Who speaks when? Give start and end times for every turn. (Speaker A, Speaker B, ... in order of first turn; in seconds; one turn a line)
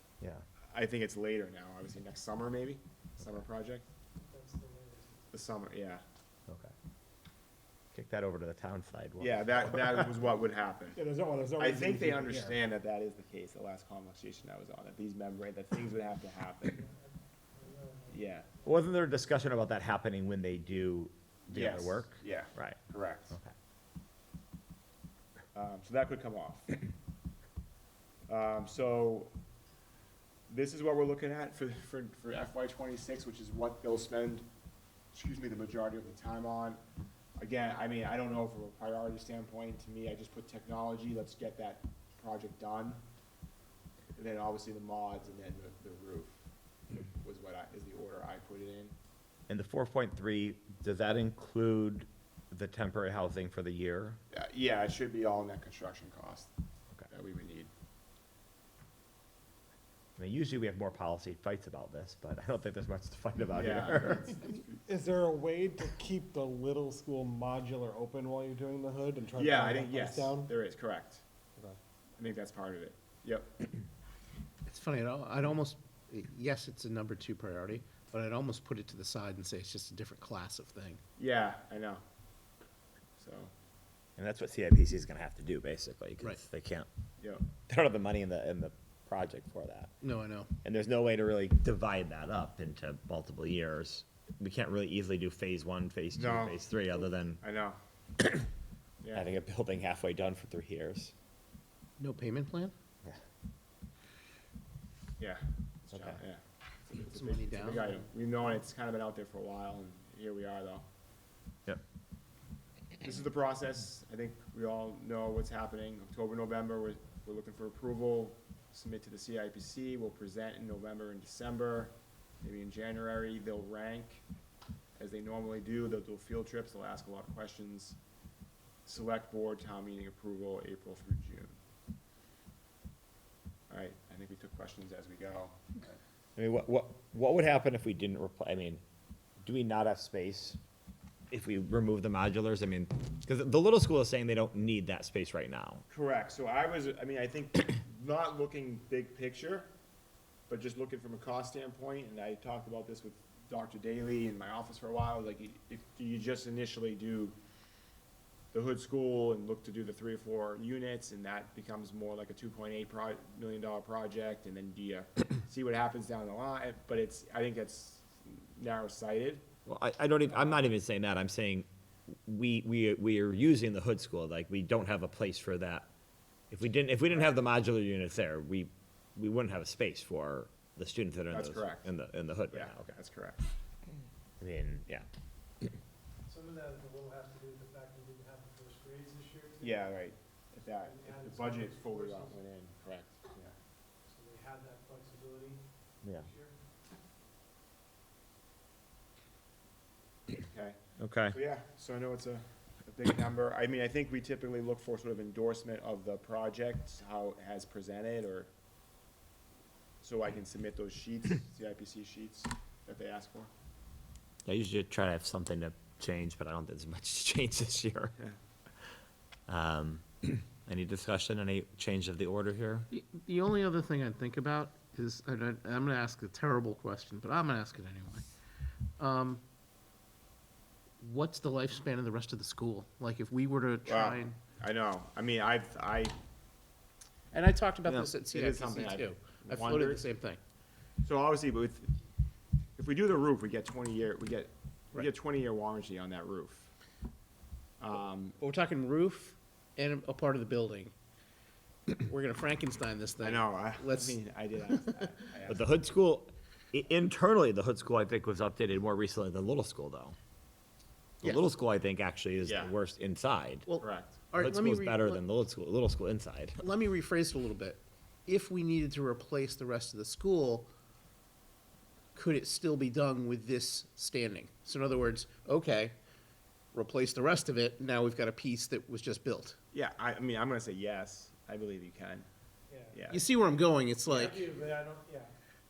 Speaker A: 0.7-3.9
Speaker B: 4.2-5.3
Speaker A: 5.3-6.0
Speaker C: 6.5-6.7
Speaker C: 7.9-10.1
Speaker A: 9.2-11.0
Speaker D: 11.0-12.6
Speaker A: 11.6-16.8
Speaker B: 16.8-18.7
Speaker A: 18.1-18.5
Speaker C: 18.6-22.8
Speaker A: 21.5-23.4
Speaker A: 25.5-26.8
Speaker A: 28.3-29.3
Speaker A: 30.5-34.5
Speaker A: 35.1-36.8
Speaker A: 37.4-43.0
Speaker A: 44.1-46.3
Speaker A: 46.9-48.9
Speaker C: 49.5-54.2
Speaker A: 54.3-56.5
Speaker A: 57.1-57.7
Speaker C: 60.2-64.4
Speaker A: 63.5-64.8
Speaker D: 64.9-70.5
Speaker A: 69.3-71.2
Speaker A: 72.2-73.7
Speaker E: 74.7-81.0
Speaker A: 81.2-82.0
Speaker A: 83.2-83.5
Speaker C: 84.2-86.9
Speaker A: 87.2-87.5
Speaker C: 87.7-89.9
Speaker E: 90.0-90.5
Speaker C: 90.6-97.4
Speaker A: 96.2-97.8
Speaker A: 99.0-99.3
Speaker C: 99.1-101.1
Speaker E: 102.0-102.7
Speaker A: 105.2-110.9
Speaker C: 105.9-106.2
Speaker E: 107.1-108.0
Speaker A: 113.0-124.2
Speaker A: 125.0-128.0
Speaker A: 128.9-131.6
Speaker A: 133.7-135.9
Speaker C: 136.4-138.8
Speaker C: 139.4-140.6
Speaker C: 141.3-145.8
Speaker A: 145.9-149.7
Speaker A: 150.5-157.3
Speaker A: 158.5-169.4
Speaker C: 169.7-175.9
Speaker C: 176.5-182.9
Speaker A: 181.3-181.9
Speaker A: 182.5-183.4
Speaker C: 184.4-185.1
Speaker B: 186.3-189.7
Speaker A: 189.6-193.6
Speaker B: 190.9-192.3
Speaker B: 194.1-195.6
Speaker B: 196.2-196.6
Speaker A: 200.4-200.8
Speaker C: 201.0-201.3
Speaker A: 201.3-208.5
Speaker A: 210.0-213.5
Speaker C: 214.5-218.2
Speaker C: 219.5-222.9
Speaker E: 222.9-228.2
Speaker E: 229.0-229.4
Speaker E: 231.0-234.4
Speaker A: 233.8-236.2
Speaker E: 237.3-240.4
Speaker A: 237.9-240.1
Speaker A: 241.0-241.9
Speaker A: 242.8-246.7
Speaker A: 247.8-248.4
Speaker E: 248.4-250.9
Speaker E: 251.9-254.2
Speaker A: 253.2-255.7
Speaker C: 255.5-260.2
Speaker C: 261.2-263.7
Speaker A: 262.4-262.7
Speaker E: 263.7-265.2
Speaker A: 263.8-264.2
Speaker C: 264.3-266.6
Speaker E: 266.6-270.7
Speaker E: 272.1-275.9
Speaker E: 276.7-279.6
Speaker A: 279.7-282.3
Speaker B: 282.7-283.0
Speaker A: 282.9-283.2
Speaker E: 283.1-284.4
Speaker B: 284.1-285.3